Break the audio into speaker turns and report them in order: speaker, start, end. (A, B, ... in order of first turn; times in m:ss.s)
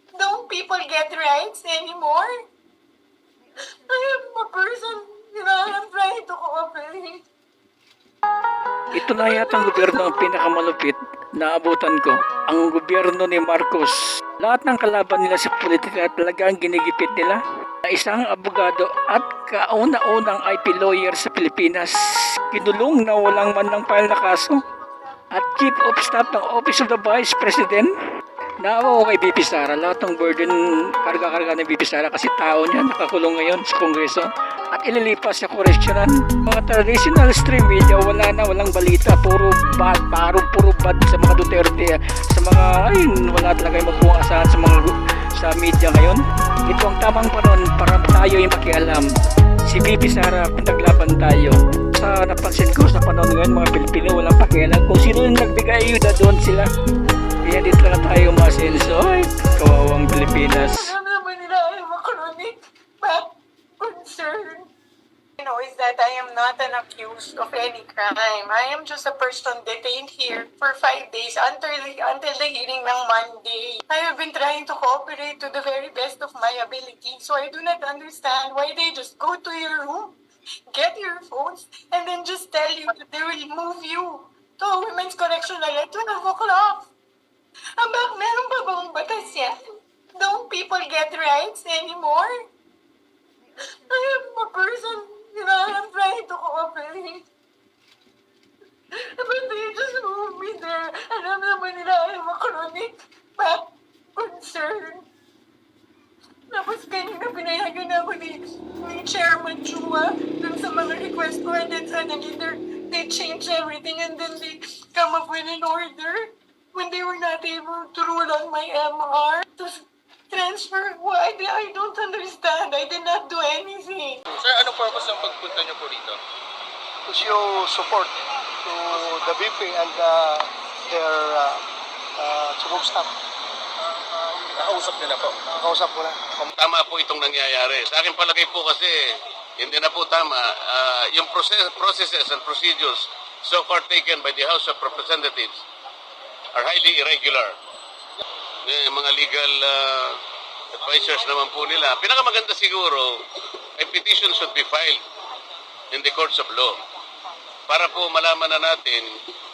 0:00.1-0:02.3 A
0:03.7-0:07.2 A
0:08.9-0:21.9 B
0:09.1-0:10.2 A
0:22.5-0:24.6 B
0:25.3-0:27.9 B
0:28.6-0:49.0 B
0:49.7-0:56.7 B
0:57.4-1:00.9 B
1:00.7-1:04.7 A
1:05.4-1:20.2 A
1:20.7-1:26.9 A
1:27.8-1:29.6 A
1:30.1-1:32.3 A
1:33.7-1:37.3 A
1:38.9-1:43.6 A
1:44.2-1:45.0 A
1:46.5-2:04.2 A
2:04.4-2:06.2 C
2:07.0-2:11.6 D
2:12.2-2:13.1 D
2:14.5-2:15.4 C
2:15.5-2:16.2 D
2:16.5-2:19.0 E
2:19.6-2:25.6 E
2:26.5-2:27.5 E
2:28.6-2:30.2 E
2:30.8-2:33.1 E
2:33.8-2:35.0 E
2:35.9-2:36.7 E
2:37.7-2:39.1 E